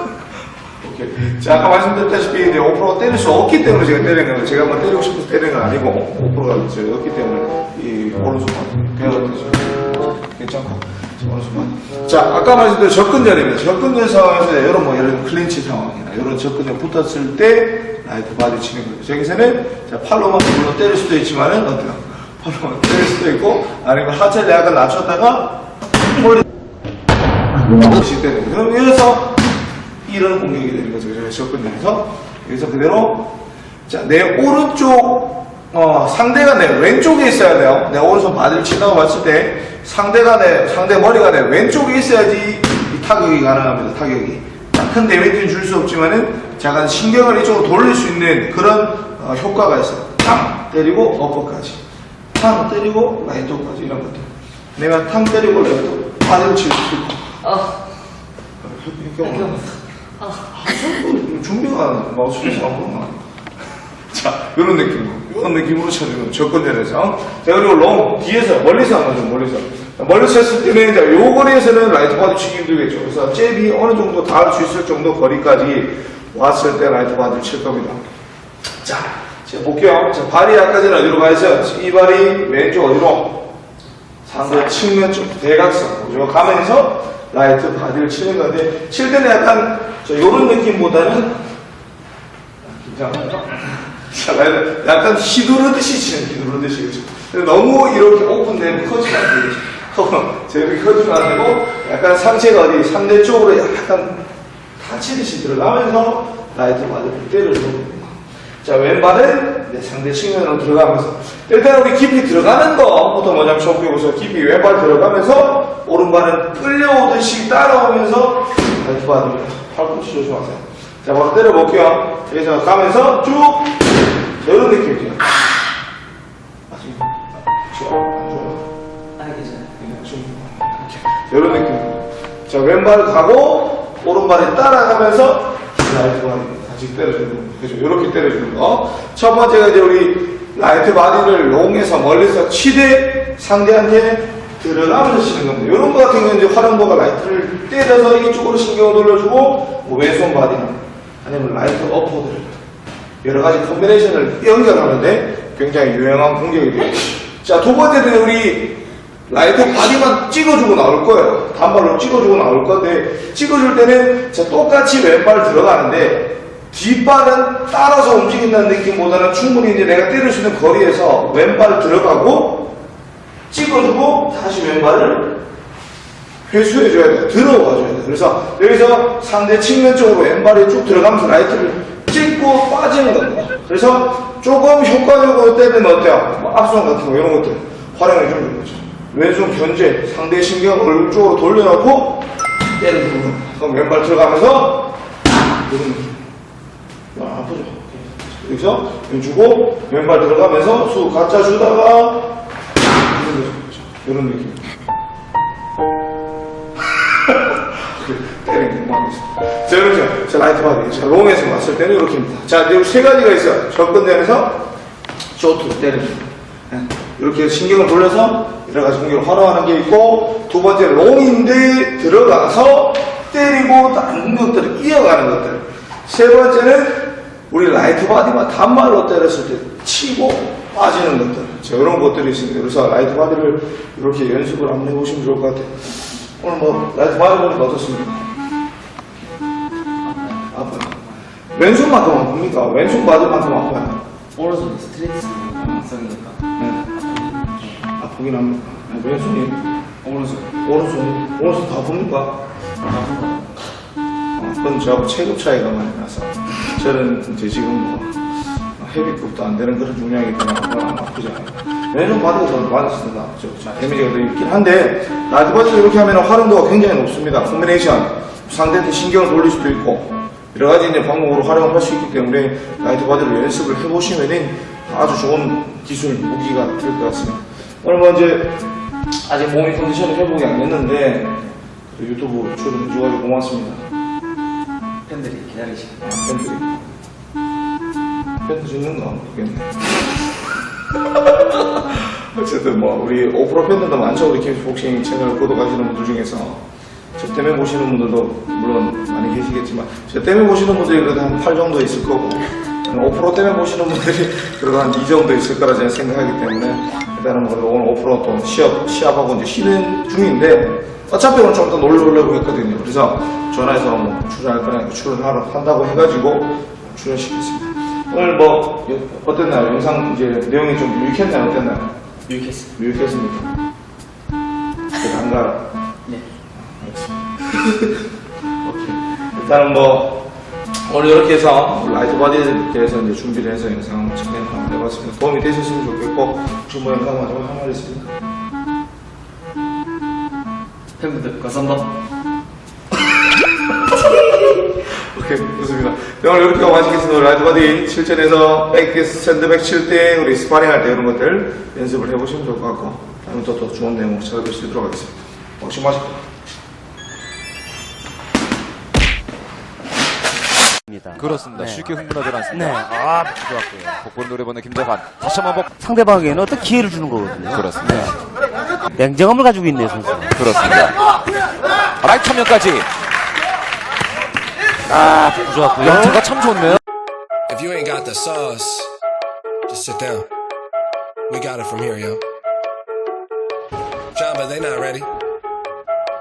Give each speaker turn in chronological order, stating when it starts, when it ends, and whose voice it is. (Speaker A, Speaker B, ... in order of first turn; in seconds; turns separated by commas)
Speaker A: 0.8-26.4, Speaker A: 27.7-29.4, Speaker A: 30.1-33.3, Speaker A: 33.9-51.8, Speaker A: 52.3-57.4, Speaker B: 57.5-57.8, Speaker A: 58.6-59.7, Speaker B: 59.2-59.6, Speaker A: 60.5-63.2, Speaker A: 64.1-78.0, Speaker A: 78.8-83.5, Speaker A: 84.2-91.3, Speaker A: 92.6-104.2, Speaker A: 104.8-123.8, Speaker A: 124.4-125.3, Speaker A: 126.7-128.7, Speaker B: 129.2-129.7, Speaker A: 129.8-152.6, Speaker A: 153.2-172.8, Speaker A: 173.5-175.4, Speaker A: 176.5-195.0, Speaker A: 195.6-196.2, Speaker A: 197.1-202.3, Speaker A: 203.0-204.7, Speaker A: 207.0-214.7, Speaker A: 215.4-238.2, Speaker B: 240.0-240.5, Speaker A: 240.5-241.0, Speaker A: 241.5-244.1, Speaker B: 244.3-246.4, Speaker A: 245.6-245.8, Speaker A: 246.6-246.9, Speaker B: 246.9-247.8, Speaker A: 247.9-249.7, Speaker B: 250.0-250.5, Speaker A: 250.6-252.4, Speaker B: 252.9-253.7, Speaker A: 254.4-258.2, Speaker A: 258.8-278.6, Speaker A: 279.3-283.8, Speaker B: 285.1-286.0, Speaker A: 286.0-286.9, Speaker A: 288.4-289.9, Speaker A: 290.9-296.6, Speaker A: 297.2-321.9, Speaker B: 322.3-322.7, Speaker A: 322.8-323.5, Speaker A: 325.0-325.7, Speaker A: 326.6-328.0, Speaker A: 328.6-330.2, Speaker A: 330.8-338.1, Speaker B: 341.0-341.9, Speaker A: 343.8-356.2, Speaker C: 360.9-361.9, Speaker D: 361.1-365.7, Speaker C: 362.5-363.3, Speaker C: 365.7-368.1, Speaker D: 367.5-368.2, Speaker C: 368.9-370.3, Speaker D: 370.3-371.0, Speaker D: 372.0-372.9, Speaker C: 374.9-376.2, Speaker D: 375.8-376.8, Speaker E: 377.5-378.9, Speaker E: 379.7-380.3, Speaker E: 381.3-382.2, Speaker E: 384.1-385.1